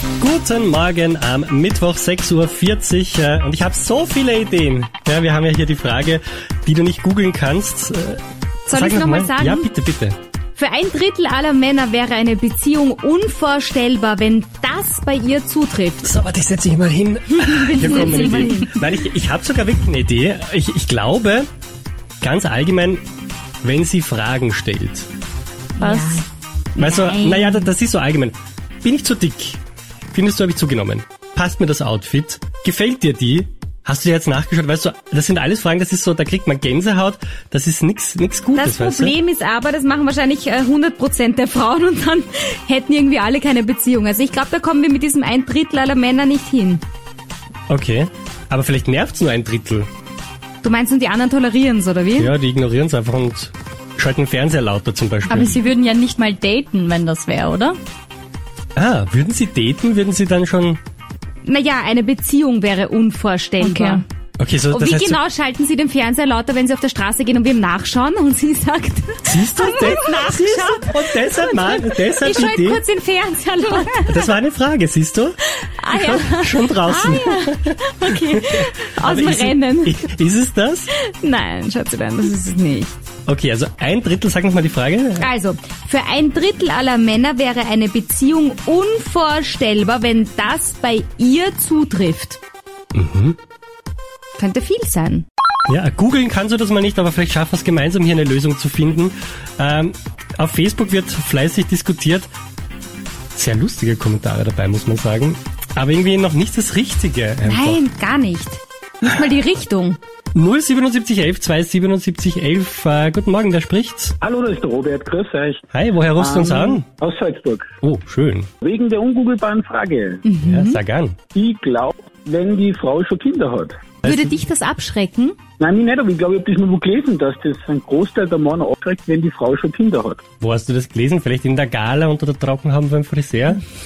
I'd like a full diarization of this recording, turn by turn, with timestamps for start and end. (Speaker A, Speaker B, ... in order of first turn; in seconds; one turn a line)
Speaker A: 0.2-10.2
Speaker B: 8.7-9.7
Speaker B: 10.6-16.1
Speaker A: 16.0-21.5
Speaker B: 17.7-18.7
Speaker A: 22.2-23.0
Speaker A: 23.6-25.1
Speaker B: 25.8-26.2
Speaker C: 25.8-26.2
Speaker A: 26.8-29.6
Speaker B: 26.8-27.3
Speaker A: 30.1-39.1
Speaker B: 38.5-46.8
Speaker A: 47.7-49.9
Speaker B: 50.6-52.3
Speaker A: 52.2-55.6
Speaker C: 55.3-57.7
Speaker A: 58.8-60.8
Speaker B: 61.4-64.0
Speaker C: 63.6-64.0
Speaker A: 64.4-65.2
Speaker B: 64.7-74.3
Speaker A: 69.2-72.8
Speaker A: 74.0-80.9
Speaker B: 75.8-80.0
Speaker B: 80.9-82.9
Speaker A: 83.3-85.3
Speaker B: 85.2-92.4
Speaker A: 92.9-93.3
Speaker B: 94.4-95.2
Speaker A: 95.7-102.3
Speaker A: 103.3-107.8
Speaker B: 107.4-110.0
Speaker A: 110.3-114.2
Speaker D: 114.2-115.6
Speaker A: 115.7-116.8
Speaker D: 116.2-117.7
Speaker A: 117.8-118.5
Speaker D: 118.6-120.2
Speaker B: 120.2-120.8
Speaker A: 120.4-121.2
Speaker D: 121.3-123.8
Speaker B: 124.0-125.3
Speaker A: 124.0-124.3
Speaker D: 125.6-130.2
Speaker A: 130.4-133.6